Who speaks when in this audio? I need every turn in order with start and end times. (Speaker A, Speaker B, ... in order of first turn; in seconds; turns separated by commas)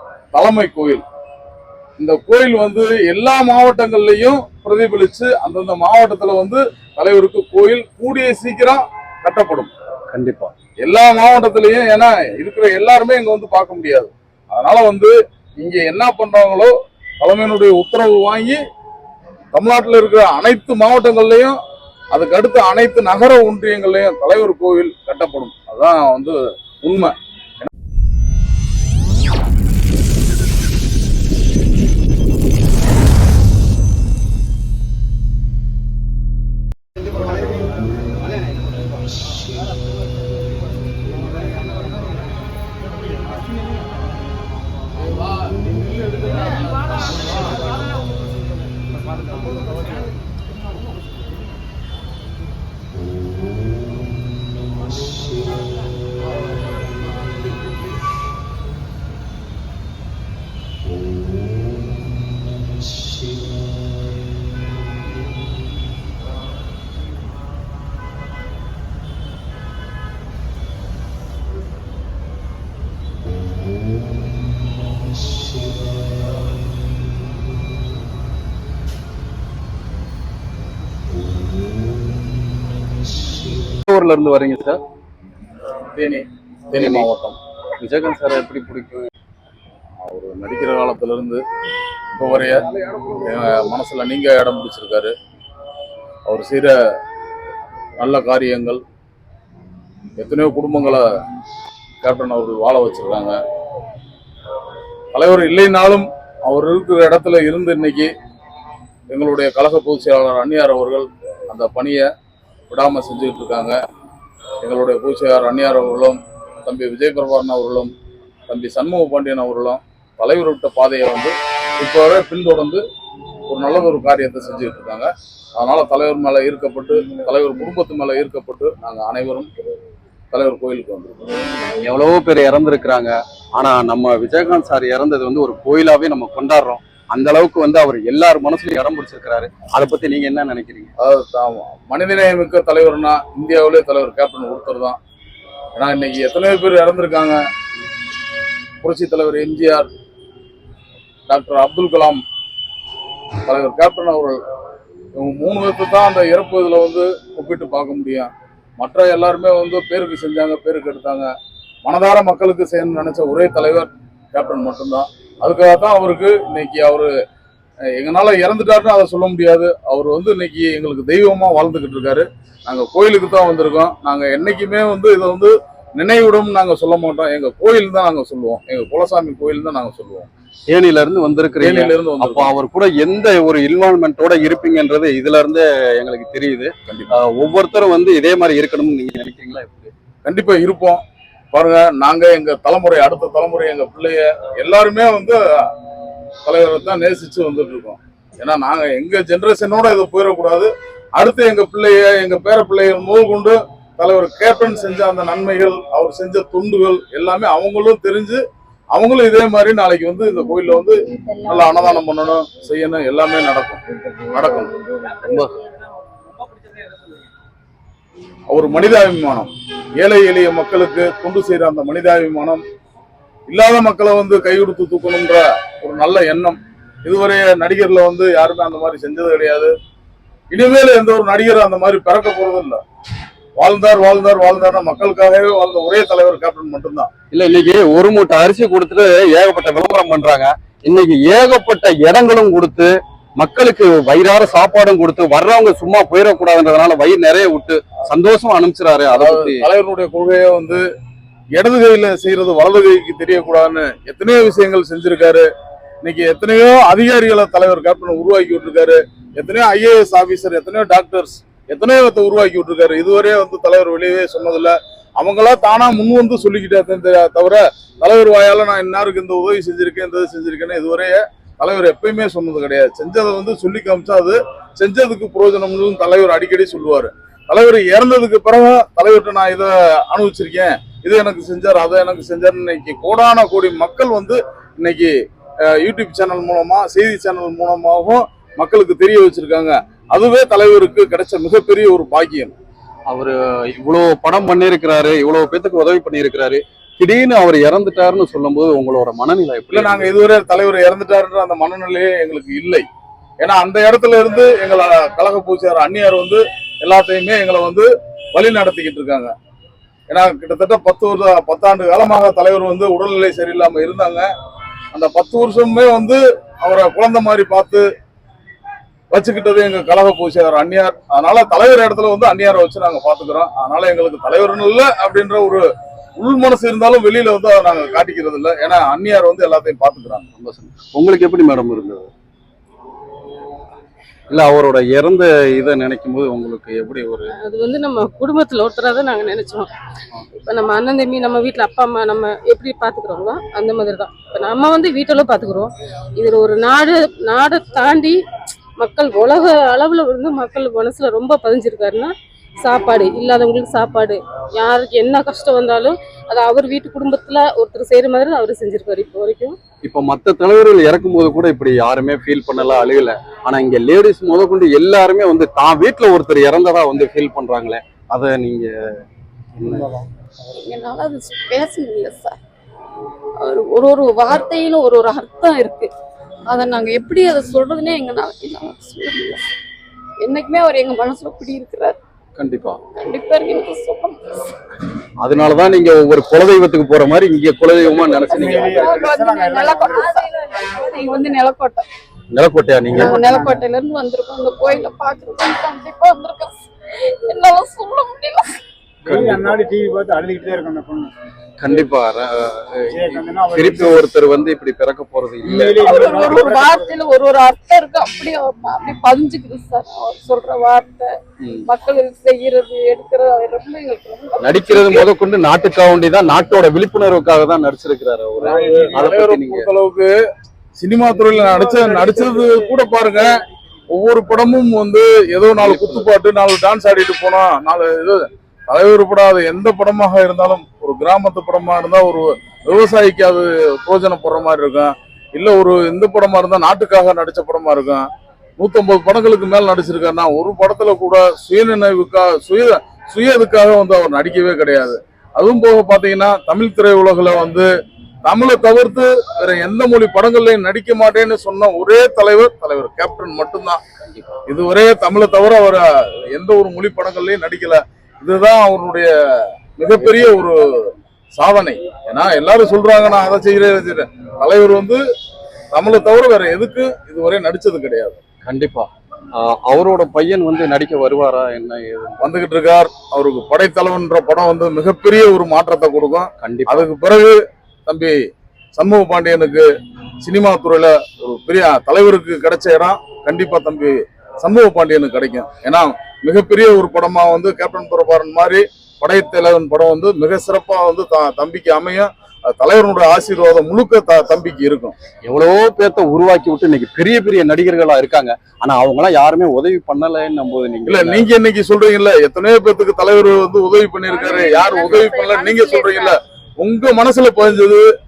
Speaker A: 0.3-1.0, Speaker A: 2.0-9.7, Speaker B: 10.1-10.5, Speaker A: 10.8-18.6, Speaker A: 19.5-21.6, Speaker A: 22.1-27.7, Speaker B: 83.8-84.8, Speaker A: 85.9-87.4, Speaker B: 86.8-87.1, Speaker B: 87.8-89.1, Speaker A: 90.0-91.4, Speaker A: 92.2-92.6, Speaker A: 93.2-95.1, Speaker A: 96.3-96.7, Speaker A: 98.0-98.8, Speaker A: 100.2-101.0, Speaker A: 102.0-103.4, Speaker A: 105.1-108.1, Speaker A: 109.1-112.1, Speaker A: 112.7-113.8, Speaker A: 114.6-117.9, Speaker A: 118.5-122.8, Speaker A: 123.5-129.5, Speaker A: 130.3-131.2, Speaker B: 131.8-140.9, Speaker A: 141.0-145.0, Speaker A: 145.8-147.4, Speaker A: 148.8-149.9, Speaker A: 151.3-152.2, Speaker A: 153.4-154.4, Speaker A: 155.2-161.3, Speaker A: 161.8-167.1, Speaker A: 167.9-180.3, Speaker B: 180.7-189.9, Speaker A: 181.6-182.5, Speaker A: 186.9-187.1, Speaker A: 190.2-191.0, Speaker A: 191.5-195.7, Speaker A: 196.4-208.4, Speaker A: 208.9-213.8, Speaker C: 211.1-212.0, Speaker C: 213.9-215.5, Speaker A: 214.3-214.7, Speaker B: 215.2-215.5, Speaker A: 218.5-222.6, Speaker A: 223.5-229.7, Speaker A: 230.5-232.8, Speaker A: 233.6-237.1, Speaker B: 237.3-249.7, Speaker A: 249.1-250.8, Speaker A: 251.6-255.4, Speaker A: 256.0-285.1, Speaker A: 285.6-292.5, Speaker B: 293.1-300.1, Speaker A: 299.7-302.8, Speaker A: 303.4-309.3, Speaker A: 310.1-314.3, Speaker A: 314.9-317.8, Speaker A: 319.1-325.6, Speaker A: 326.2-330.3, Speaker B: 330.4-332.1, Speaker B: 334.3-337.3, Speaker D: 337.4-339.7, Speaker D: 340.4-348.2, Speaker D: 348.8-359.6, Speaker B: 359.8-369.0, Speaker B: 369.6-370.0, Speaker C: 370.6-372.4, Speaker C: 373.4-375.9, Speaker C: 376.5-379.4, Speaker C: 380.2-382.0, Speaker B: 382.4-382.8, Speaker C: 382.9-384.2, Speaker B: 385.2-388.9, Speaker C: 387.8-391.9, Speaker E: 388.1-390.1, Speaker B: 392.3-393.2, Speaker E: 392.9-393.6, Speaker C: 392.9-396.6, Speaker C: 397.2-398.6, Speaker E: 399.0-401.1, Speaker B: 399.1-399.6, Speaker B: 401.6-406.0, Speaker E: 402.9-403.9, Speaker E: 405.4-406.9, Speaker C: 405.8-411.1, Speaker B: 411.4-411.7, Speaker C: 411.6-415.0, Speaker B: 414.4-419.7, Speaker A: 418.4-420.1, Speaker A: 420.8-423.4, Speaker E: 421.2-422.1, Speaker A: 423.9-438.1, Speaker B: 425.6-426.1, Speaker A: 438.6-447.7, Speaker A: 448.2-453.8, Speaker B: 454.0-454.4, Speaker A: 454.5-459.1, Speaker A: 459.7-465.0, Speaker B: 460.0-460.4, Speaker A: 465.7-468.2, Speaker B: 468.4-472.2, Speaker A: 472.2-478.1, Speaker B: 476.4-476.9, Speaker A: 478.8-479.7, Speaker A: 480.2-494.9, Speaker B: 495.2-501.3, Speaker A: 500.9-507.9, Speaker C: 504.1-506.1